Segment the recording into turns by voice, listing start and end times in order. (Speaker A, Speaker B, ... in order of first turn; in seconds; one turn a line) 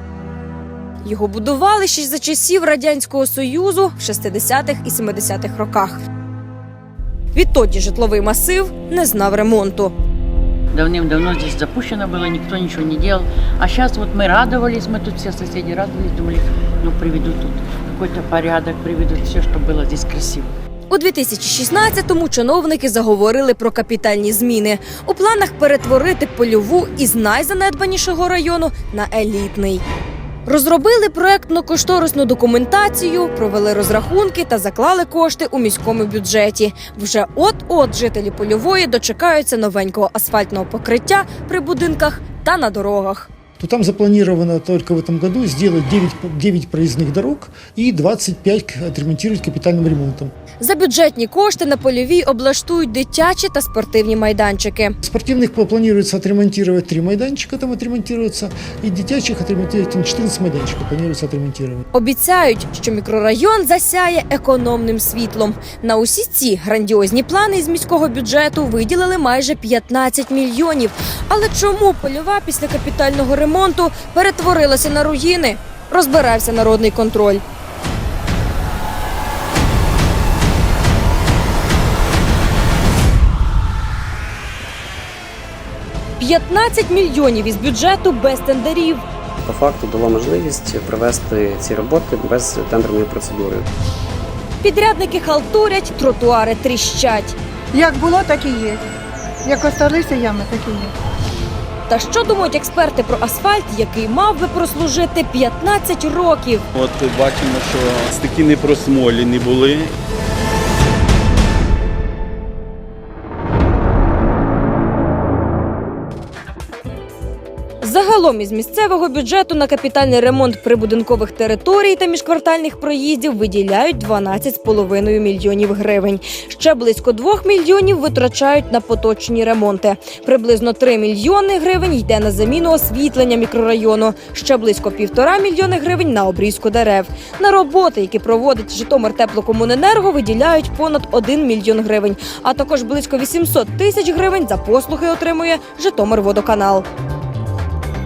Speaker A: 1.0-6.0
Speaker A: 7.3-9.9
Speaker B: 10.7-20.5
Speaker A: 20.9-29.8
Speaker A: 30.4-43.3
Speaker C: 43.6-50.3
Speaker A: 50.6-55.0
Speaker C: 55.0-61.8
Speaker A: 61.9-77.4
Speaker A: 86.2-89.0
Speaker D: 89.4-93.7
Speaker A: 94.6-97.4
Speaker E: 97.7-98.8
Speaker E: 99.5-100.9
Speaker A: 101.9-106.6
Speaker F: 106.7-109.9
Speaker A: 117.8-146.9